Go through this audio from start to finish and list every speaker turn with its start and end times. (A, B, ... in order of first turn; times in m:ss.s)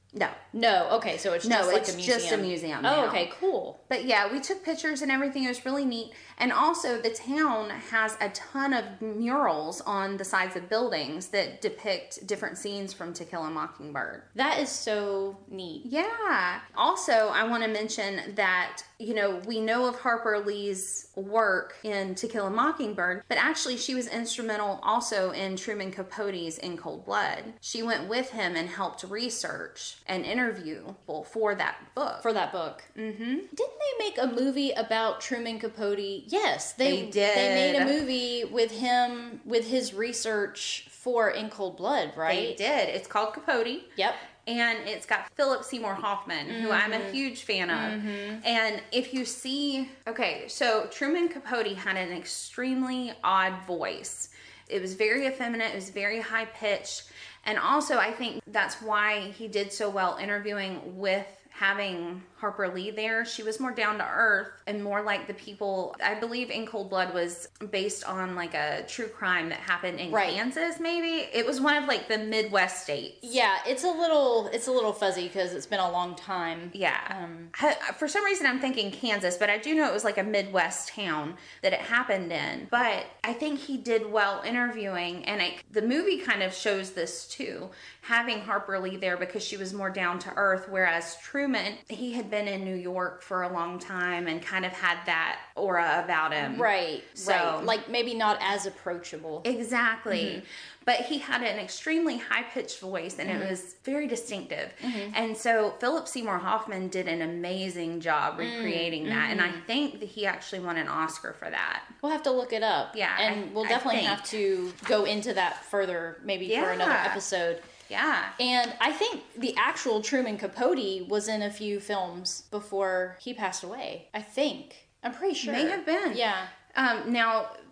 0:00.1-0:00.4 A
0:00.5-0:03.8 B
0:01.4-0:03.3 A
0:03.9-0:14.3 A
0:14.4-0:15.9 B
0:15.8-0:32.3 A
0:32.2-0:32.9 B
0:33.0-0:33.5 A
0:33.5-0:42.6 B
0:36.8-0:38.0 A
0:42.3-1:13.4 A
0:44.0-0:44.3 B
0:46.5-0:47.2 B
0:47.7-0:48.4 B
1:10.1-1:10.4 B
1:13.2-1:17.5 B
1:16.7-1:37.8 A
1:36.4-1:39.5 B
1:39.4-1:51.9 A
1:40.1-1:40.4 B
1:43.3-1:43.5 B
1:44.8-1:45.2 B
1:48.4-1:49.6 B
1:52.0-1:57.6 B
1:52.9-1:54.2 A
1:56.5-1:57.2 A
1:57.9-1:58.4 A
1:58.4-2:06.5 B
2:05.4-2:07.5 A